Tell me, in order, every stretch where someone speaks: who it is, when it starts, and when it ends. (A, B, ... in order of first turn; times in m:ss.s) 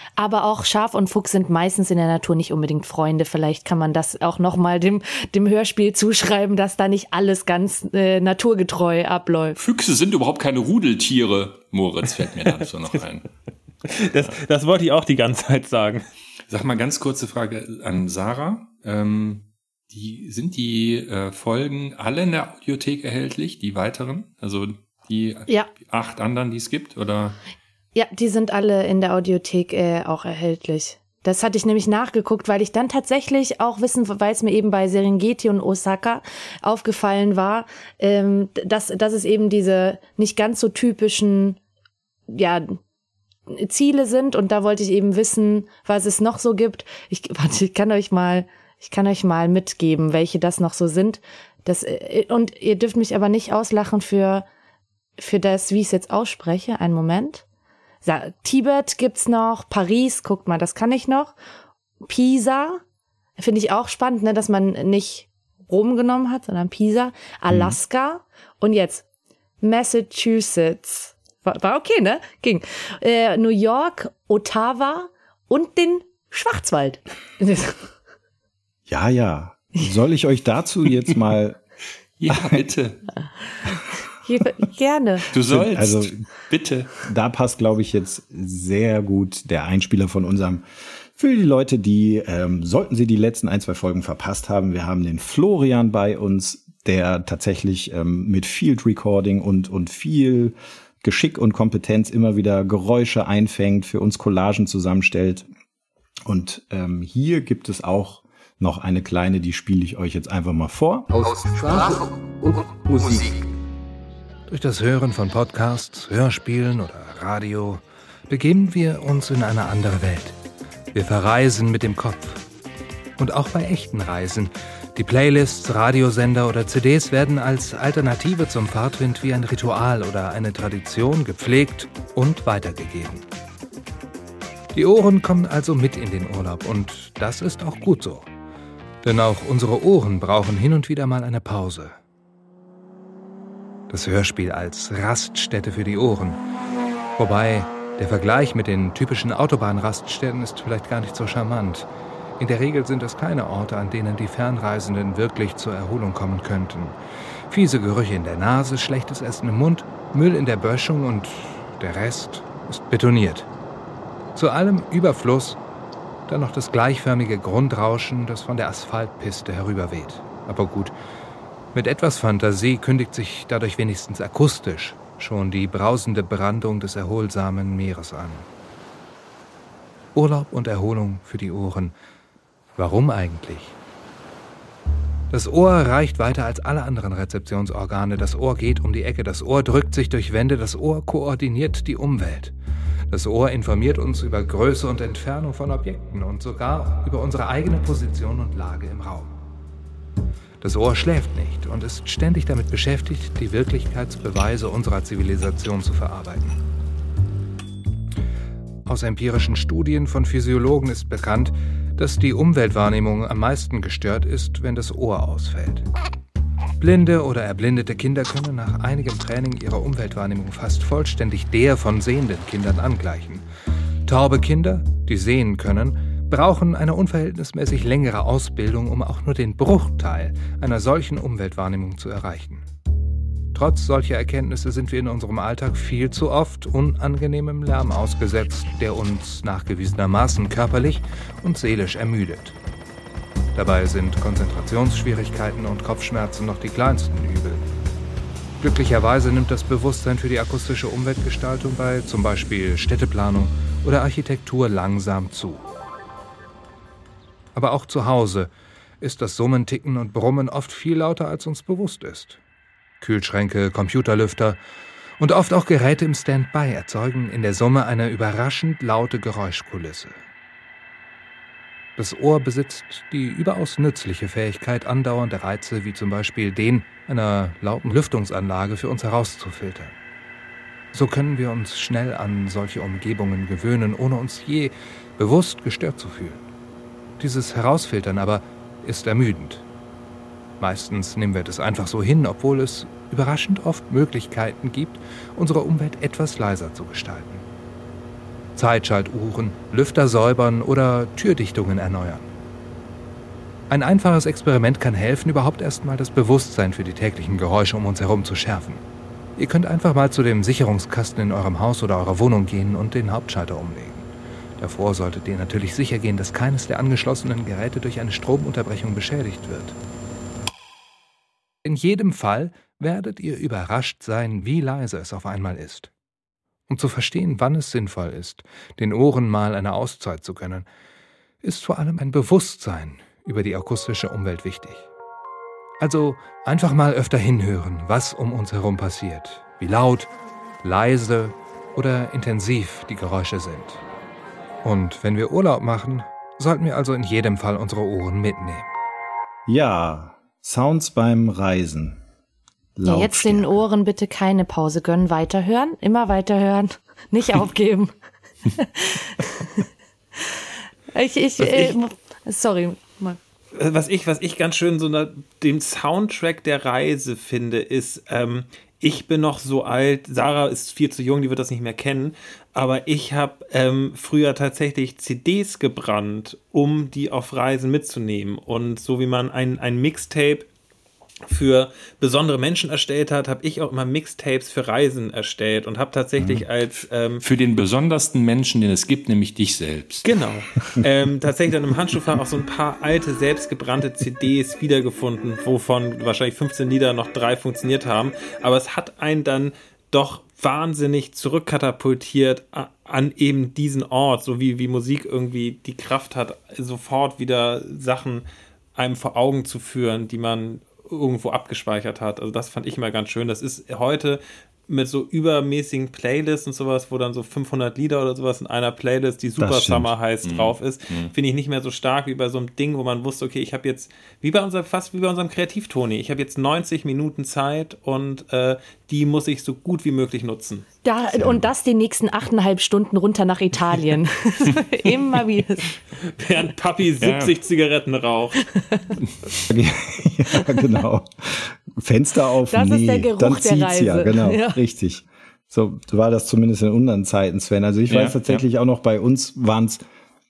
0:00.2-0:09.6 A
0:09.6-0:13.3 B
0:13.9-0:16.0 C
0:16.5-0:27.4 B
0:28.0-0:41.6 A
0:42.3-0:42.8 A
0:43.5-0:54.5 A
0:55.2-0:57.4 A
0:58.0-1:01.3 A
1:02.0-1:02.8 A
1:03.4-1:09.0 A
1:07.5-1:07.8 D
1:09.6-1:17.9 A
1:18.9-1:21.6 D
1:22.2-1:23.0 B
1:22.3-1:22.6 D
1:24.2-1:25.3 A
1:25.3-1:26.9 B
1:25.4-1:26.2 D
1:27.0-1:30.6 D
1:31.2-1:45.5 D
1:46.3-1:51.1 D
1:51.2-1:53.4 E
1:54.5-2:00.4 F
2:00.9-2:02.4 F
2:03.2-2:13.3 F
2:14.7-2:18.3 F
2:19.0-2:22.0 F
2:23.9-2:26.4 F
2:27.2-2:37.0 F
2:37.5-2:43.5 F
2:44.4-2:45.6 F
2:46.3-2:50.9 F
2:51.7-2:58.5 F
3:00.1-3:02.0 F
3:02.8-3:03.8 F
3:05.3-3:12.5 F
3:13.1-3:19.3 F
3:20.6-3:26.6 F
3:28.9-3:35.9 F
3:36.8-3:43.5 F
3:44.0-3:52.7 F
3:53.5-4:02.6 F
4:03.5-4:07.6 F
4:08.6-4:15.7 F
4:17.5-4:22.4 F
4:23.0-4:24.6 F
4:25.2-4:30.2 F
4:32.0-4:39.9 F
4:40.9-4:46.4 F
4:47.2-4:49.6 F
4:50.6-4:57.4 F
4:58.6-5:02.3 F
5:03.7-5:08.8 F
5:09.4-5:19.8 F
5:21.6-5:25.9 F
5:26.7-5:30.7 F
5:31.4-5:34.9 F
5:35.8-5:40.1 F
5:40.6-5:43.8 F
5:44.6-5:48.7 F
5:49.5-5:52.0 D
5:52.8-5:53.6 D
5:52.8-5:57.9 A
5:58.6-5:59.6 A
6:00.9-6:03.2 A
6:03.6-6:20.5 C
6:21.3-6:27.2 C
6:26.2-6:26.4 D
6:27.2-6:30.1 B
6:30.0-6:48.2 C
6:48.8-7:10.6 C
6:59.4-6:59.9 D
7:00.2-7:01.1 B
7:10.8-7:15.7 A
7:11.1-7:11.4 D
7:16.2-7:18.4 C
7:17.0-7:17.4 B
7:18.6-7:18.8 A
7:19.5-7:29.8 D
7:22.5-7:24.6 A
7:27.9-7:28.4 B